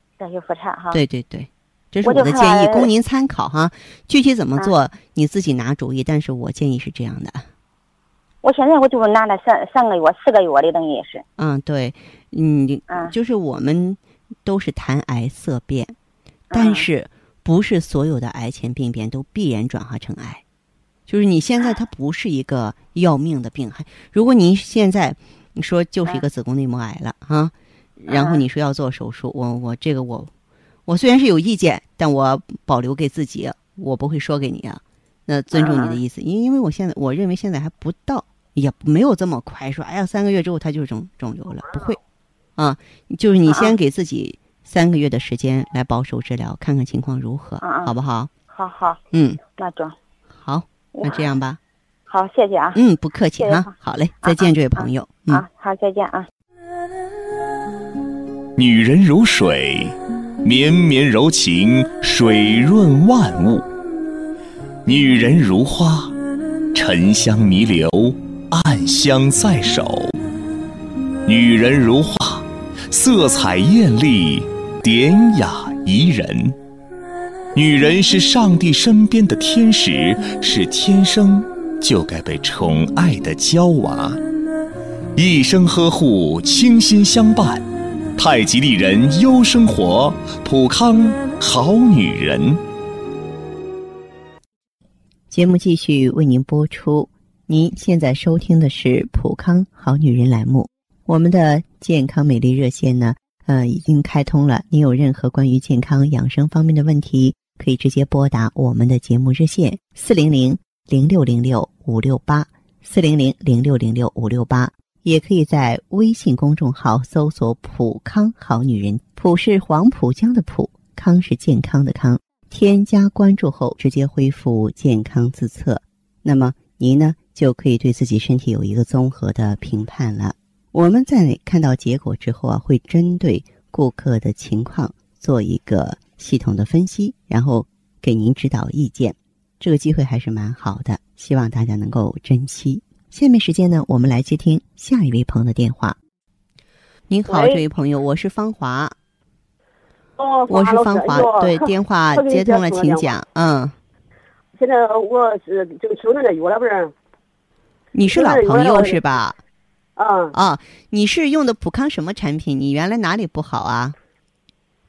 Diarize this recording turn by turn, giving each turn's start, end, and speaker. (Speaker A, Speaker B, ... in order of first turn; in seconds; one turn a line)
Speaker A: 0.2-1.0
Speaker B: 0.9-7.5
Speaker A: 2.0-2.9
Speaker A: 8.4-11.2
Speaker B: 11.4-15.9
Speaker A: 16.5-16.9
Speaker B: 16.5-20.4
Speaker B: 21.1-30.3
Speaker A: 28.1-28.4
Speaker B: 30.9-42.0
Speaker A: 35.5-36.0
Speaker B: 42.6-48.3
Speaker A: 43.5-43.7
Speaker A: 47.6-47.9
Speaker A: 48.5-50.0
Speaker B: 49.1-49.4
Speaker B: 50.3-51.6
Speaker A: 50.9-51.2
Speaker A: 52.1-52.8
Speaker B: 52.7-55.4
Speaker A: 53.4-53.7
Speaker A: 54.2-56.3
Speaker C: 58.5-63.7
Speaker C: 64.8-66.1
Speaker C: 66.7-70.1
Speaker C: 71.2-76.6
Speaker C: 77.5-84.2
Speaker C: 85.2-92.6
Speaker B: 95.3-146.0
Speaker B: 147.1-148.9
Speaker D: 147.3-147.6
Speaker D: 150.2-153.1
Speaker B: 150.5-153.8
Speaker D: 154.5-156.9
Speaker B: 157.9-159.4
Speaker D: 158.1-159.0
Speaker D: 160.0-160.3
Speaker B: 160.3-163.9